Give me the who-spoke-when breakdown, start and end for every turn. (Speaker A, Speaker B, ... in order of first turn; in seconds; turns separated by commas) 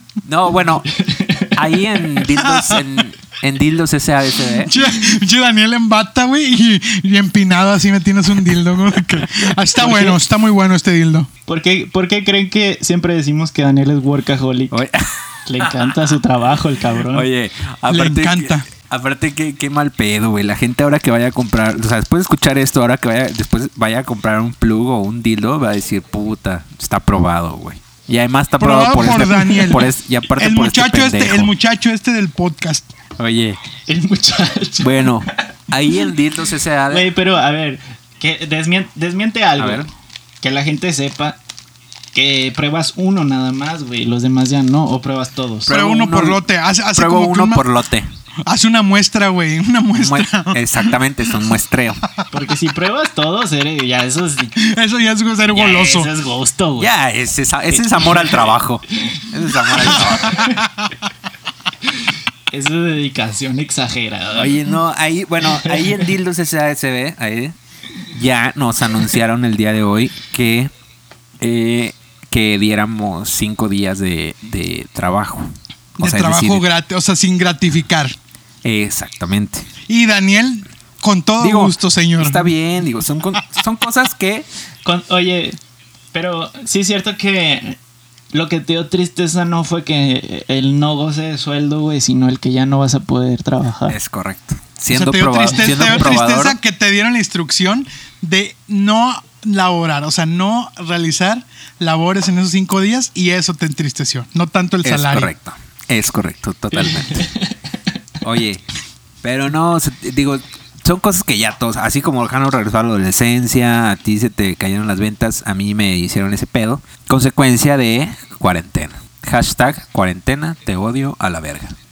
Speaker A: 0.2-0.9, Speaker B: 1.0-2.2, Speaker A: 1.5-4.7, Speaker C: 2.4-2.8, Speaker C: 4.5-11.3, Speaker B: 9.8-10.2, Speaker B: 11.5-14.8, Speaker A: 14.7-15.0, Speaker B: 15.4-17.2, Speaker A: 15.6-15.9, Speaker A: 17.1-31.5, Speaker C: 17.9-18.6, Speaker C: 28.6-32.9, Speaker A: 33.2-33.6, Speaker B: 33.9-35.2, Speaker A: 34.8-37.1, Speaker B: 36.9-39.9, Speaker A: 39.6-39.9, Speaker B: 40.4-41.4, Speaker B: 42.1-45.7, Speaker A: 45.7-46.4, Speaker C: 45.7-47.6, Speaker A: 46.9-48.1, Speaker C: 48.5-50.9, Speaker A: 50.0-52.0, Speaker B: 52.3-54.5, Speaker C: 54.6-56.1, Speaker B: 55.5-56.9, Speaker A: 56.8-60.5, Speaker B: 57.7-60.6, Speaker C: 59.9-60.9, Speaker B: 62.5-64.7, Speaker A: 64.3-67.5, Speaker B: 65.6-66.0, Speaker A: 68.1-70.7, Speaker A: 71.4-76.6, Speaker C: 76.0-78.2, Speaker A: 78.6-79.7, Speaker C: 79.9-82.5, Speaker A: 81.4-84.5, Speaker B: 84.8-85.6, Speaker B: 86.1-87.8, Speaker B: 88.3-94.0, Speaker A: 93.9-96.5, Speaker C: 94.9-105.3, Speaker B: 95.5-95.8, Speaker A: 104.8-107.3, Speaker B: 106.8-107.6, Speaker A: 108.2-108.6, Speaker A: 109.2-121.7